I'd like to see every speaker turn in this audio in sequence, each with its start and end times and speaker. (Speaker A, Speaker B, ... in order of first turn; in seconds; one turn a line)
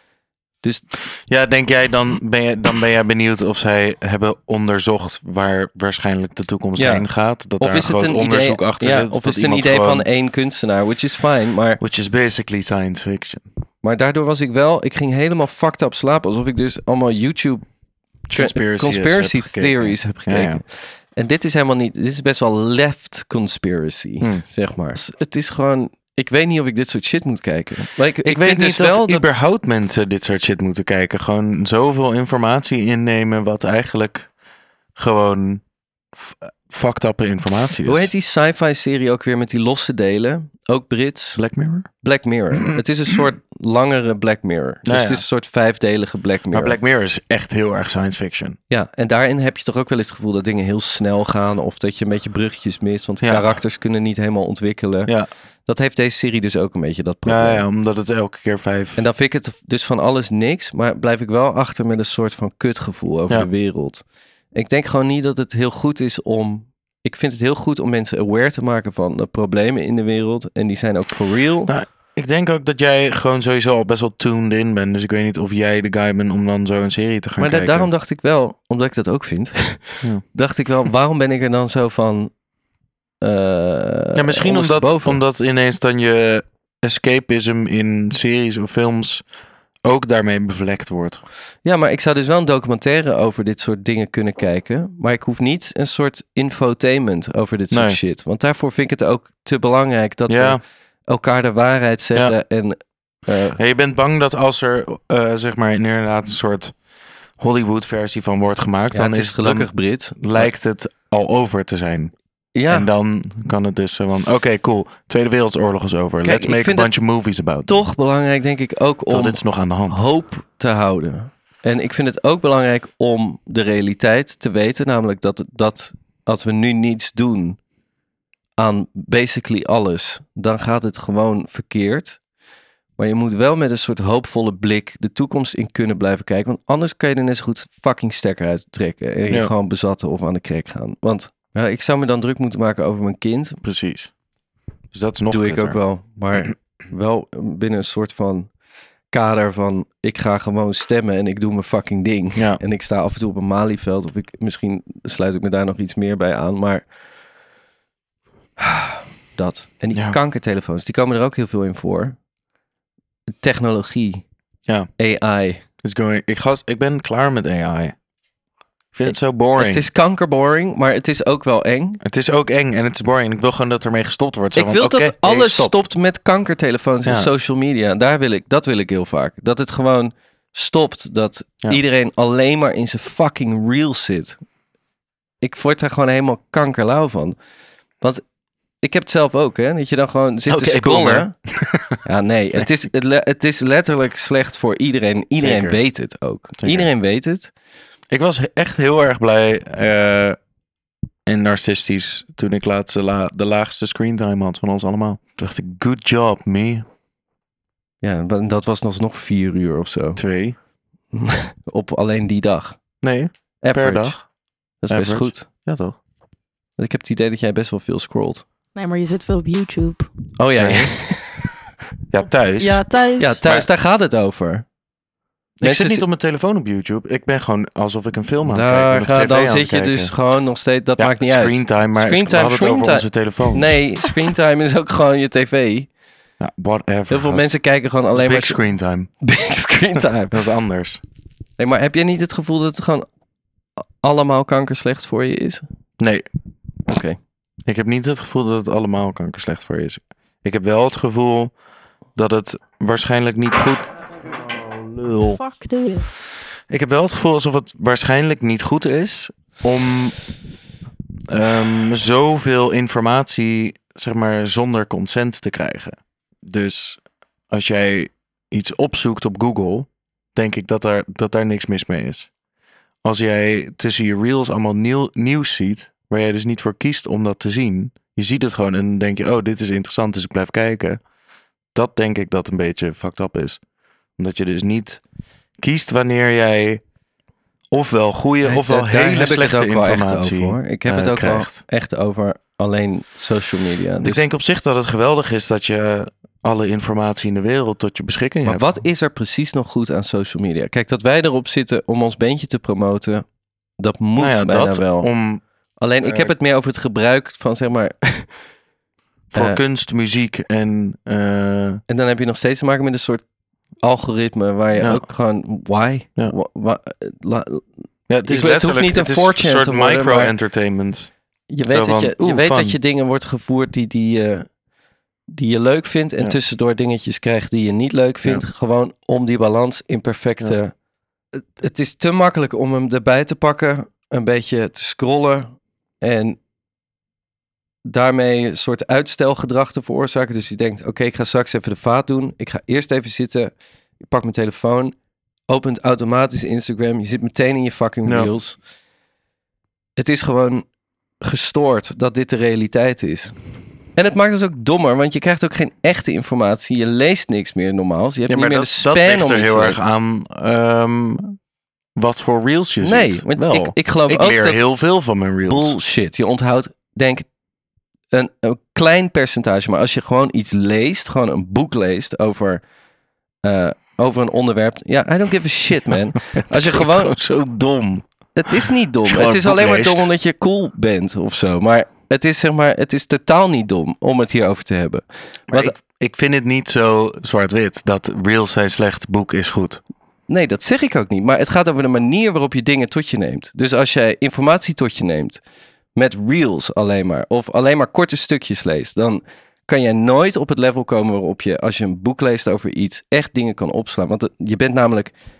Speaker A: 0.6-0.9
Speaker B: 1.1-10.1
Speaker A: 6.8-11.8
Speaker B: 11.8-13.5
Speaker A: 13.8-17.7
Speaker B: 18.3-20.6
Speaker A: 18.3-29.3
Speaker B: 28.2-34.3
Speaker B: 34.9-38.1
Speaker A: 37.8-41.4
Speaker B: 41.4-41.9
Speaker A: 42.0-46.8
Speaker B: 44.9-45.2
Speaker B: 46.5-48.6
Speaker A: 48.7-55.1
Speaker B: 53.2-53.6
Speaker A: 55.6-57.7
Speaker B: 57.2-59.0
Speaker A: 59.0-71.7
Speaker B: 71.7-77.9
Speaker A: 77.4-82.4
Speaker A: 83.2-85.2
Speaker B: 84.1-89.3
Speaker B: 89.8-91.2
Speaker A: 91.6-103.6
Speaker B: 97.7-98.0
Speaker B: 100.3-100.6
Speaker B: 103.6-106.8
Speaker B: 107.3-112.1
Speaker A: 108.9-110.5
Speaker A: 112.5-112.9
Speaker B: 112.7-117.8
Speaker A: 116.2-116.9
Speaker A: 117.7-127.6
Speaker B: 119.1-120.0
Speaker A: 128.6-132.2
Speaker A: 133.0-143.6
Speaker B: 143.6-144.1
Speaker B: 144.9-145.8
Speaker A: 145.3-148.5
Speaker A: 149.1-156.9
Speaker B: 152.3-152.6
Speaker A: 158.6-162.2
Speaker A: 163.4-164.2
Speaker A: 165.0-165.6
Speaker B: 165.8-167.9
Speaker B: 168.9-169.8
Speaker A: 169.1-172.0
Speaker B: 172.0-175.8
Speaker A: 174.5-184.4
Speaker A: 185.4-187.3
Speaker A: 188.8-191.3
Speaker B: 190.5-192.0
Speaker A: 192.0-197.5
Speaker B: 195.4-195.8
Speaker B: 196.6-196.9
Speaker B: 198.1-200.4
Speaker B: 201.2-206.8
Speaker A: 208.0-210.2
Speaker B: 210.2-210.6
Speaker A: 211.1-212.9
Speaker B: 213.0-214.3
Speaker A: 213.6-215.5
Speaker B: 214.9-216.0
Speaker A: 216.8-218.4
Speaker C: 218.7-220.1
Speaker A: 220.4-221.5
Speaker B: 220.6-221.0
Speaker B: 222.1-222.8
Speaker C: 222.6-223.4
Speaker A: 223.2-224.7
Speaker B: 225.6-230.1
Speaker A: 225.6-226.0
Speaker A: 228.5-235.9
Speaker B: 231.0-233.8
Speaker B: 236.4-237.6
Speaker A: 237.1-238.6
Speaker B: 238.1-239.1
Speaker A: 239.2-240.4
Speaker B: 240.3-241.0
Speaker A: 241.6-243.1
Speaker A: 244.0-245.6
Speaker B: 246.0-246.2
Speaker A: 246.9-247.2
Speaker B: 247.6-251.5
Speaker B: 252.1-253.9
Speaker C: 255.3-256.1
Speaker B: 256.7-260.2
Speaker B: 261.3-272.3
Speaker B: 273.0-281.0
Speaker B: 281.7-283.6
Speaker B: 284.1-285.0
Speaker B: 285.6-286.8
Speaker B: 287.7-291.6
Speaker A: 288.4-294.2
Speaker B: 294.0-298.7
Speaker A: 298.4-303.2
Speaker A: 303.8-305.1
Speaker B: 304.2-305.4
Speaker A: 305.8-308.4
Speaker B: 306.0-306.3
Speaker B: 309.3-311.8
Speaker A: 309.3-309.6
Speaker A: 311.9-313.2
Speaker A: 313.8-317.7
Speaker B: 314.8-315.1
Speaker B: 318.1-321.1
Speaker A: 318.2-320.3
Speaker A: 321.5-324.5
Speaker B: 321.7-322.8
Speaker A: 325.3-330.7
Speaker A: 331.3-336.4
Speaker A: 337.8-344.9
Speaker A: 345.5-348.6
Speaker B: 348.0-348.3
Speaker A: 350.0-350.7
Speaker A: 351.2-353.4
Speaker A: 353.9-359.8
Speaker B: 358.2-361.4
Speaker B: 361.9-365.8
Speaker A: 362.8-364.6
Speaker A: 365.4-367.3
Speaker A: 368.1-372.6
Speaker A: 373.4-377.2
Speaker B: 375.9-378.1
Speaker A: 378.3-385.8
Speaker B: 379.0-380.1
Speaker B: 385.5-389.8
Speaker A: 390.3-395.4
Speaker A: 395.9-405.1